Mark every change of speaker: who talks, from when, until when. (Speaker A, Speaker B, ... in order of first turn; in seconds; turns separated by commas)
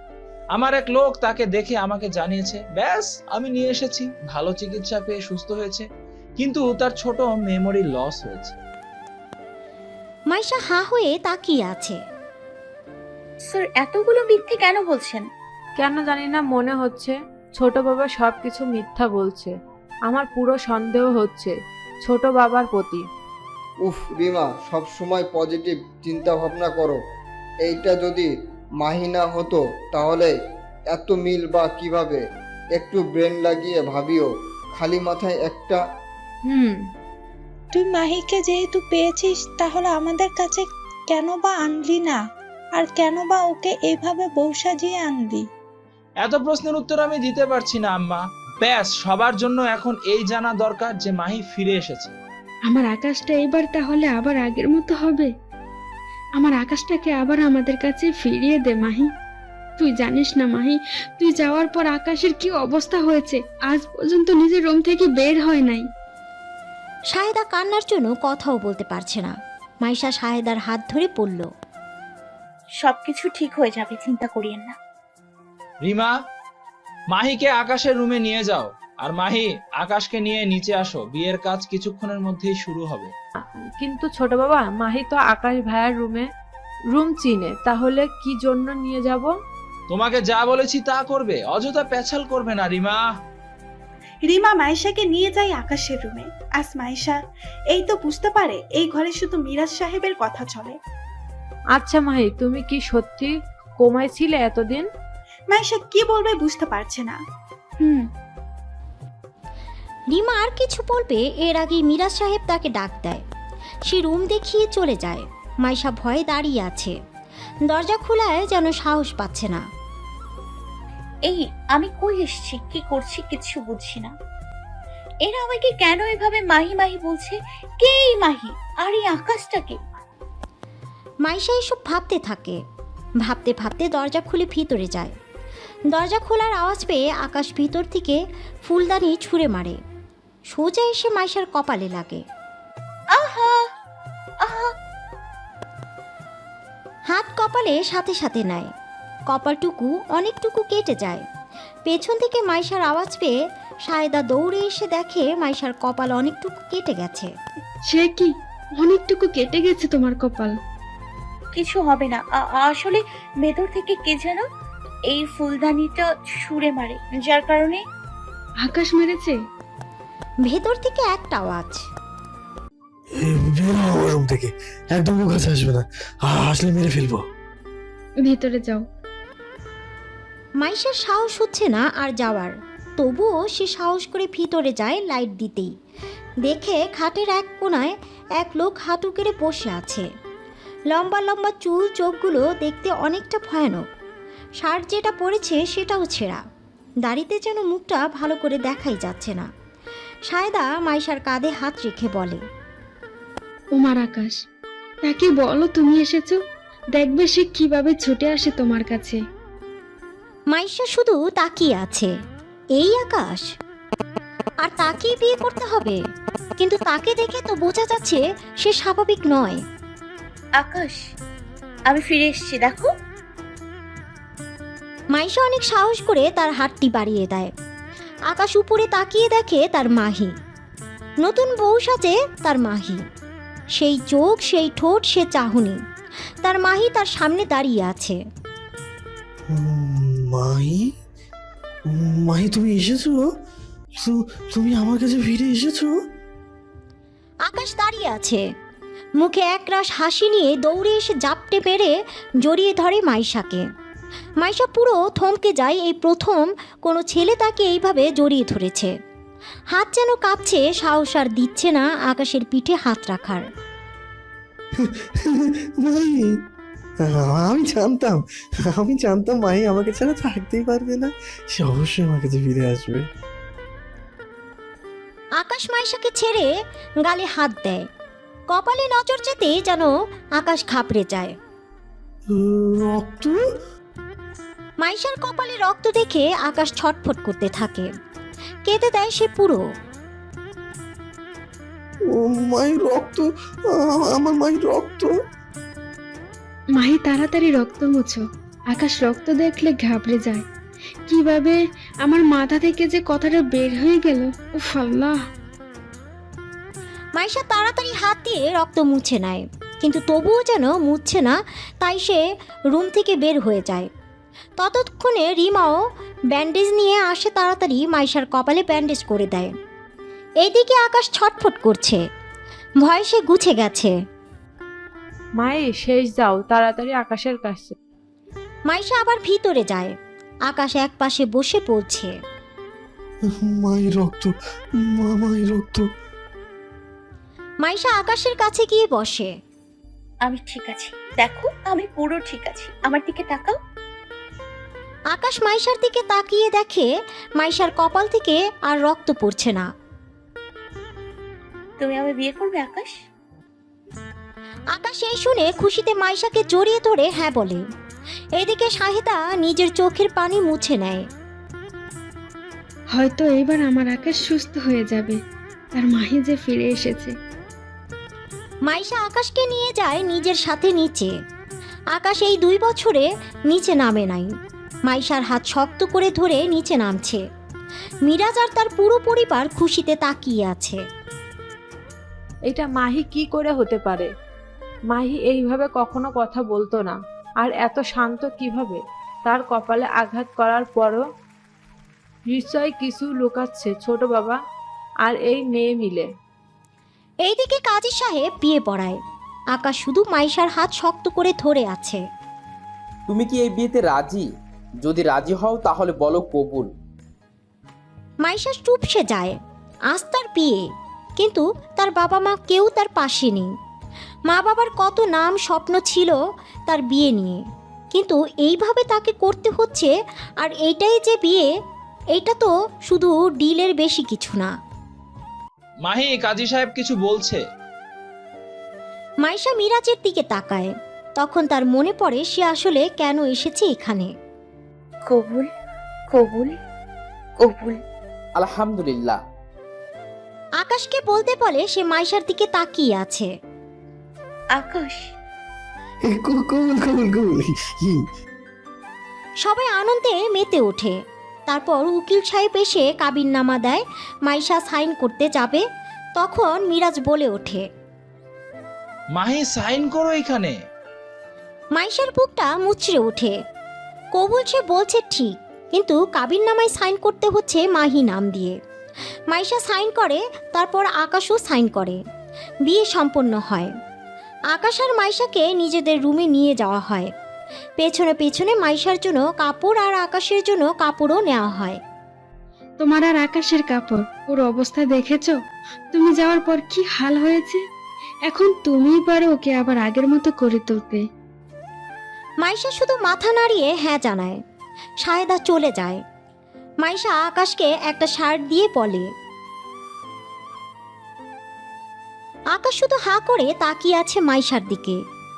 Speaker A: 0.6-5.8, Speaker A: 6.4-8.6, Speaker B: 10.3-12.0, Speaker C: 13.4-15.3, Speaker D: 15.8-19.6, Speaker D: 20.1-23.1, Speaker E: 23.9-27.0, Speaker E: 27.7-28.3, Speaker E: 28.8-30.3, Speaker E: 30.9-32.2, Speaker E: 32.8-35.8, Speaker D: 36.5-36.8, Speaker F: 37.8-42.2, Speaker F: 42.8-45.4, Speaker A: 46.2-52.1, Speaker G: 52.7-55.3, Speaker G: 56.4-59.1, Speaker G: 59.8-65.8, Speaker B: 67.1-71.5, Speaker C: 72.8-74.8, Speaker A: 75.8-76.1, Speaker A: 77.1-83.1, Speaker D: 83.8-86.3, Speaker D: 86.9-89.3, Speaker A: 89.9-93.0, Speaker H: 94.2-97.2, Speaker H: 97.7-100.8, Speaker D: 101.8-104.9, Speaker H: 105.5-107.2, Speaker B: 110.2-113.2, Speaker B: 113.9-117.0, Speaker B: 117.7-119.7, Speaker C: 121.2-124.1, Speaker C: 125.2-129.8, Speaker B: 131.3-132.6, Speaker B: 133.3-135.1, Speaker B: 135.9-139.8, Speaker B: 140.5-142.2, Speaker C: 143.1-143.7, Speaker C: 144.4-144.8, Speaker B: 147.1-148.7, Speaker B: 149.3-151.3, Speaker B: 151.9-153.3, Speaker B: 153.9-157.3, Speaker G: 157.9-160.6, Speaker C: 161.5-164.4, Speaker C: 165.1-167.8, Speaker G: 168.6-169.4, Speaker B: 170.5-171.8, Speaker I: 173.2-177.3, Speaker G: 178.2-178.8, Speaker B: 180.6-185.7, Speaker B: 186.4-190.1, Speaker B: 190.9-193.8, Speaker B: 194.6-196.4, Speaker B: 197.0-199.5, Speaker B: 200.3-202.4, Speaker G: 203.7-204.4, Speaker G: 205.0-206.4, Speaker G: 206.9-209.2, Speaker B: 210.5-212.1, Speaker B: 212.8-213.5, Speaker B: 214.6-216.0, Speaker B: 216.6-219.6, Speaker C: 220.6-221.1, Speaker C: 221.9-222.9, Speaker B: 225.1-227.5, Speaker B: 228.3-230.3, Speaker B: 231.2-233.0, Speaker B: 233.8-235.8, Speaker B: 236.4-238.2, Speaker I: 239.5-240.9, Speaker I: 241.9-243.3, Speaker I: 244.0-246.0, Speaker B: 247.5-248.4, Speaker B: 249.2-253.6, Speaker B: 254.4-258.9, Speaker B: 259.7-263.4, Speaker I: 265.2-266.3, Speaker I: 267.0-273.1, Speaker B: 275.4-276.5, Speaker B: 277.0-277.8, Speaker B: 278.5-281.4, Speaker I: 282.3-283.4, Speaker B: 284.8-287.9, Speaker B: 288.6-289.6, Speaker I: 292.1-295.1, Speaker G: 296.8-300.4, Speaker G: 301.1-305.2, Speaker B: 307.2-313.9, Speaker B: 314.6-319.5, Speaker B: 320.4-322.0, Speaker B: 322.8-323.9, Speaker D: 325.4-327.8, Speaker B: 328.7-329.9, Speaker B: 330.5-332.1, Speaker I: 333.3-335.9, Speaker B: 337.6-339.3, Speaker C: 340.2-343.6, Speaker B: 345.1-349.7, Speaker C: 351.8-353.0, Speaker B: 354.7-357.6, Speaker B: 358.4-361.1, Speaker G: 362.9-365.2, Speaker G: 365.8-367.1, Speaker B: 368.7-371.1, Speaker B: 371.9-374.3, Speaker B: 374.9-377.2, Speaker B: 378.1-380.8, Speaker D: 382.5-384.1, Speaker D: 384.9-391.1, Speaker D: 392.3-394.4, Speaker D: 395.0-396.1, Speaker B: 397.3-399.0, Speaker B: 399.5-402.0, Speaker J: 403.1-404.2, Speaker J: 404.8-406.7, Speaker B: 408.2-409.4, Speaker B: 409.9-410.6, Speaker B: 411.2-413.5, Speaker B: 414.3-417.4, Speaker B: 417.9-421.5, Speaker B: 422.1-424.5, Speaker A: 425.9-427.4, Speaker B: 429.2-434.1, Speaker C: 435.1-435.5, Speaker C: 436.1-436.6, Speaker C: 437.4-437.8, Speaker J: 438.4-439.2, Speaker B: 440.6-443.3, Speaker C: 444.5-445.1, Speaker I: 446.0-448.0, Speaker B: 449.4-450.9, Speaker B: 451.5-455.6, Speaker B: 456.2-457.7, Speaker A: 459.1-460.6, Speaker B: 461.8-463.4, Speaker B: 464.1-468.6, Speaker B: 469.3-472.0, Speaker B: 472.7-473.7, Speaker B: 474.5-477.1, Speaker B: 477.8-481.8, Speaker G: 482.8-485.4, Speaker G: 485.9-487.6, Speaker G: 488.3-491.0, Speaker B: 492.4-494.4, Speaker B: 495.0-496.0, Speaker B: 496.8-499.1, Speaker B: 502.6-505.0